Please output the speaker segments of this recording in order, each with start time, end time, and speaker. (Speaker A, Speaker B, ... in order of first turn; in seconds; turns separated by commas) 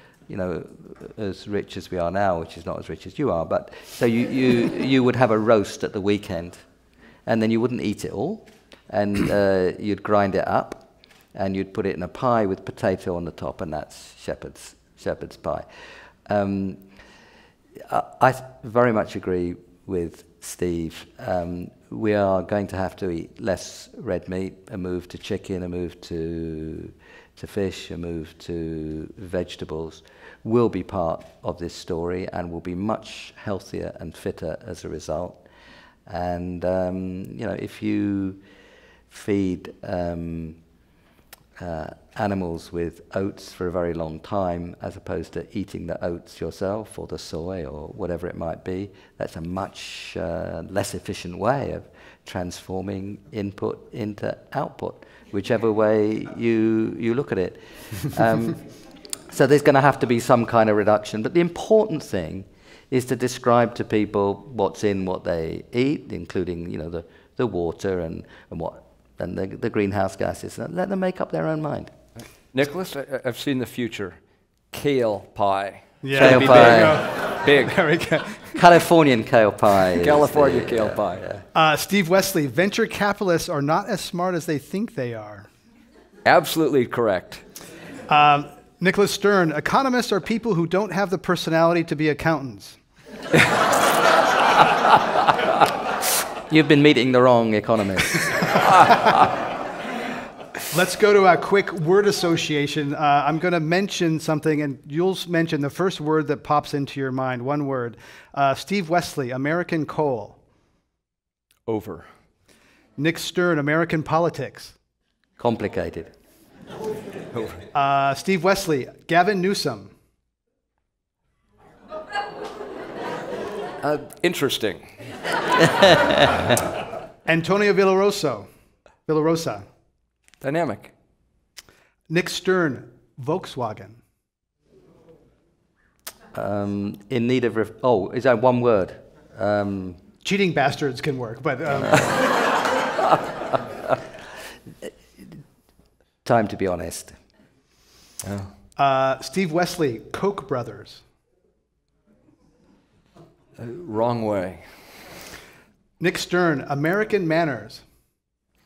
Speaker A: 0.3-6.6, Speaker A: 7.3-15.7, Speaker A: 16.2-16.8, Speaker A: 17.9-35.4, Speaker A: 36.1-38.4, Speaker A: 39.1-40.6, Speaker A: 41.6-58.6, Speaker A: 59.3-71.9, Speaker B: 72.5-74.2, Speaker B: 74.7-77.8, Speaker C: 76.0-78.6, Speaker A: 76.1-77.0, Speaker A: 78.5-81.4, Speaker B: 80.0-81.2, Speaker C: 81.5-85.5, Speaker B: 86.2-87.4, Speaker C: 88.1-92.8, Speaker A: 96.5-98.6, Speaker C: 100.7-110.4, Speaker B: 111.7-112.1, Speaker C: 113.0-114.7, Speaker A: 115.4-116.1, Speaker B: 117.3-117.6, Speaker C: 117.7-119.9, Speaker B: 123.8-124.9, Speaker C: 127.2-128.5, Speaker C: 129.1-129.6, Speaker B: 130.4-130.9, Speaker C: 132.1-134.0, Speaker A: 136.3-140.0, Speaker C: 140.2-142.2, Speaker A: 146.2-147.1, Speaker B: 148.2-148.5, Speaker C: 148.8-151.0, Speaker B: 153.6-154.6, Speaker C: 156.0-157.8